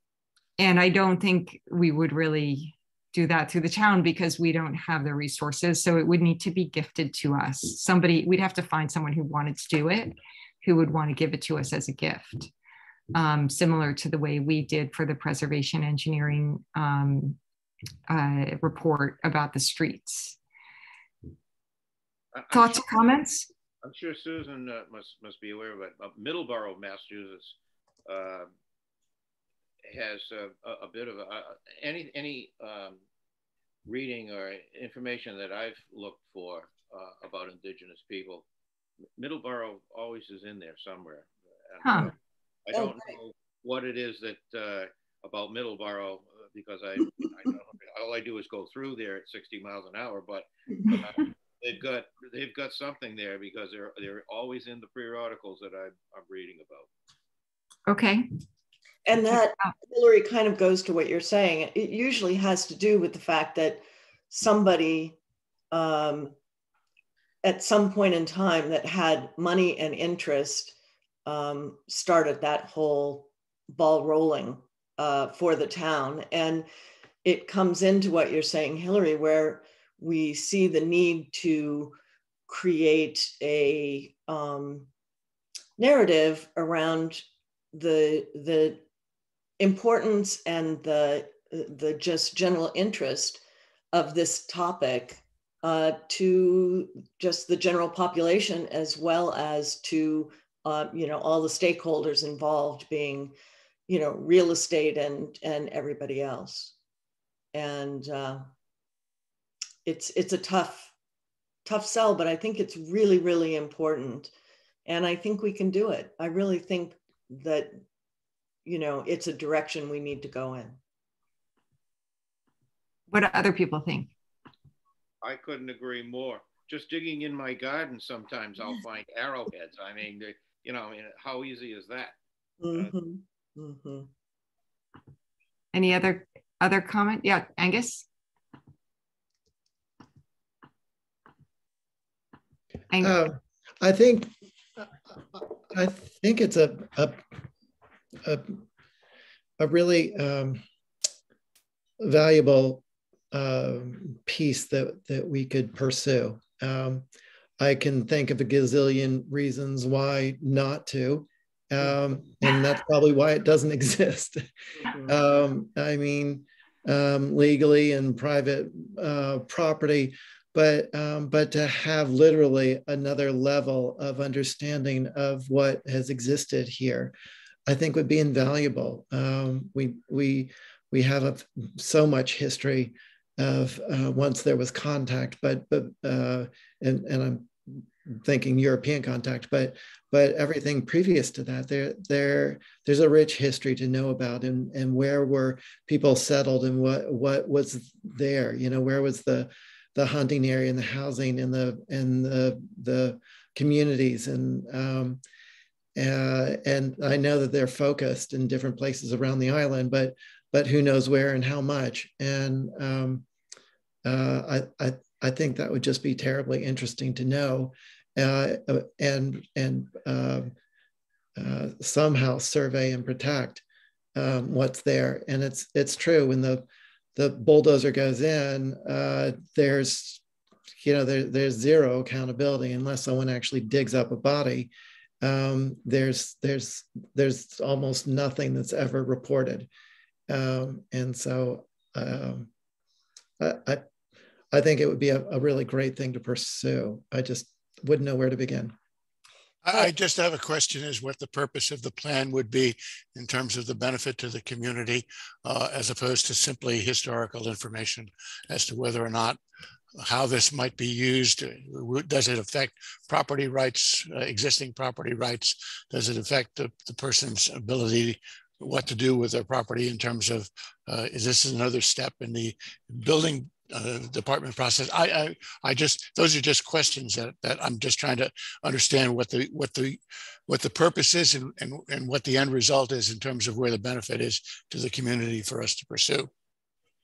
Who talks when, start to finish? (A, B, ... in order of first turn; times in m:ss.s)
0:00.6-0:12.5 A
0:13.1-0:17.4 A
0:18.1-0:20.4 A
0:22.3-0:22.9 B
0:22.5-0:23.5 A
0:23.8-0:28.5 B
0:29.9-0:33.0 B
0:33.8-0:38.5 B
0:39.2-0:42.1 B
0:41.8-0:42.1 A
0:42.6-0:56.9 B
0:57.9-0:58.3 A
0:59.0-1:05.2 C
1:05.7-1:06.4 C
1:07.4-1:16.7 C
1:17.2-1:22.0 C
1:22.5-1:24.9 C
1:25.8-1:28.8 C
1:29.6-1:43.3 C
1:43.9-1:46.7 C
1:47.5-1:48.5 C
1:49.8-1:50.9 C
1:51.6-1:54.3 C
1:54.8-1:57.8 C
1:58.6-2:00.8 C
2:03.1-2:04.1 A
2:05.2-2:12.2 B
2:12.6-2:14.1 C
2:15.7-2:18.0 A
2:22.9-2:23.2 A
2:23.0-2:27.2 D
2:28.2-2:28.6 D
2:29.6-2:30.6 D
2:32.0-2:37.0 D
2:37.6-2:44.4 D
2:44.9-2:45.1 C
2:45.0-2:57.1 D
2:57.7-3:25.2 D
3:25.9-3:33.2 D
3:34.0-3:40.5 D
3:41.4-3:43.6 D
3:44.1-3:50.2 D
3:50.8-3:59.7 D
4:00.3-4:02.5 D
4:03.4-4:03.8 D
4:04.5-4:08.7 D
4:09.7-4:19.4 E
4:20.0-4:46.3 E